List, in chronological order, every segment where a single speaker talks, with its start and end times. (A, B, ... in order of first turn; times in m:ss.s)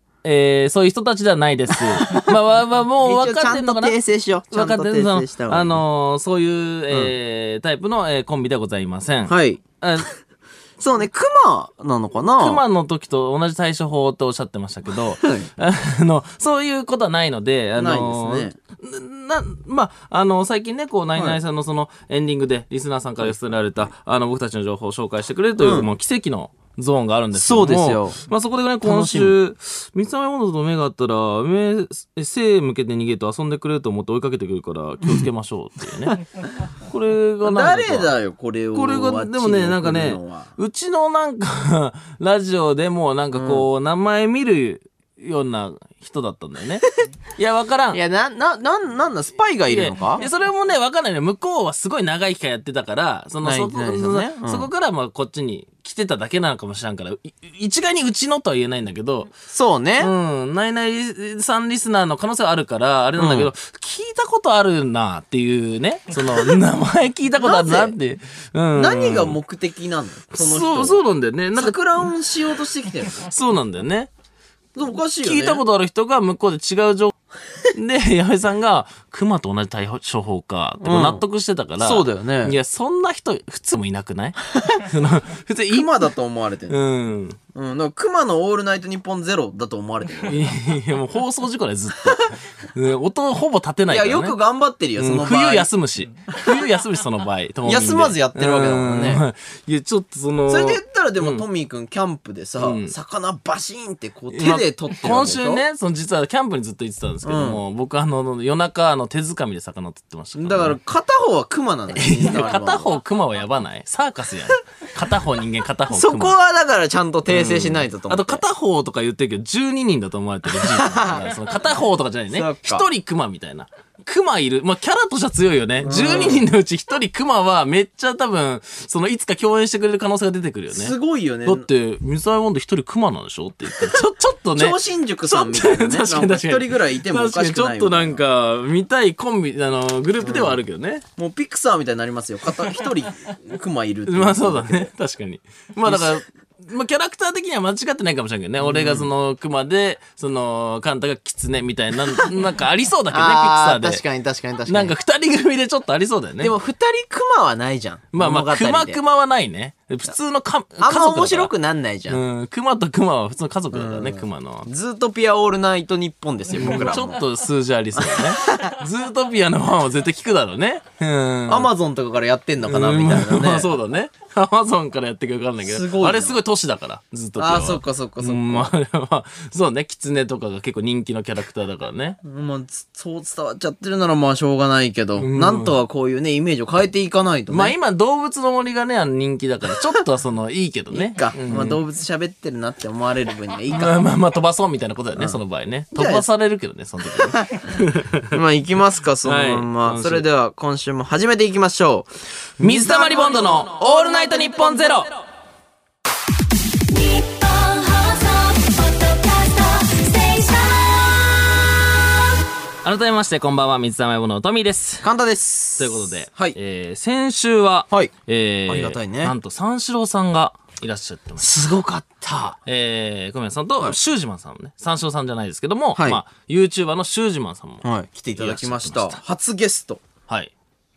0:00.2-0:04.0 A
0:01.8-0:02.4 B
0:03.0-0:05.8 B
0:04.5-0:10.1 A
0:09.3-0:09.6 B
0:10.8-0:12.6 B
0:12.4-0:36.2 A
0:15.2-0:15.5 B
0:17.8-0:18.6 B
0:25.6-0:25.9 B
0:27.3-0:28.2 B
0:28.8-0:29.4 B
0:36.8-0:38.1 A
0:37.4-0:40.5 B
0:38.7-0:48.0 A
0:43.3-0:43.7 B
0:47.9-0:50.2 B
0:49.7-0:59.3 A
0:53.4-0:54.7 B
0:59.5-1:00.1 B
1:00.0-1:09.4 A
1:03.2-1:03.5 B
1:07.4-1:08.0 B
1:08.8-1:11.0 B
1:10.3-1:12.1 A
1:11.5-1:13.3 B
1:13.2-1:14.1 A
1:14.8-1:15.6 B
1:15.2-1:17.2 A
1:17.7-1:26.0 A
1:20.8-1:21.2 B
1:21.8-1:22.6 B
1:24.5-1:24.8 B
1:25.7-1:26.8 B
1:26.7-1:27.4 A
1:27.5-1:30.5 B
1:30.3-1:34.4 A
1:33.9-1:35.7 B
1:35.0-1:41.4 A
1:37.6-1:39.2 B
1:40.5-1:45.6 B
1:42.6-1:42.9 A
1:44.3-1:50.8 A
1:47.2-1:47.6 B
1:50.4-1:52.9 B
1:52.0-1:56.4 A
1:55.9-1:58.4 B
1:57.3-2:10.9 A
2:00.5-2:01.3 B
2:02.3-2:02.8 B
2:05.8-2:06.4 B
2:10.7-2:11.7 B
2:11.4-2:21.0 A
2:14.6-2:18.2 B
2:20.2-2:20.6 B
2:21.2-2:24.9 B
2:24.1-2:34.0 A
2:25.9-2:26.2 B
2:28.6-2:29.1 B
2:33.1-2:34.9 B
2:34.7-2:36.5 A
2:36.4-2:39.0 B
2:38.1-2:41.5 A
2:40.8-2:42.2 B
2:42.1-2:44.7 A
2:43.7-2:47.2 B
2:46.5-2:51.7 A
2:48.0-2:48.8 B
2:51.5-2:53.7 B
2:52.6-3:02.2 A
2:55.6-2:56.4 B
2:57.4-2:58.7 B
3:02.2-3:07.8 B
3:05.2-3:05.8 A
3:07.5-3:11.8 A
3:10.9-3:14.0 B
3:13.7-3:18.4 A
3:16.0-3:16.3 B
3:17.2-3:17.7 B
3:18.3-3:25.0 B
3:19.2-3:20.2 A
3:22.6-3:25.2 A
3:26.9-3:31.6 C
3:32.8-3:35.1 A
3:35.0-3:36.6 B
3:35.8-3:41.5 A
3:38.7-3:39.3 B
3:41.4-3:42.6 B
3:42.6-3:47.8 A
3:46.0-3:46.2 B
3:47.8-3:50.0 B
3:48.4-3:49.2 A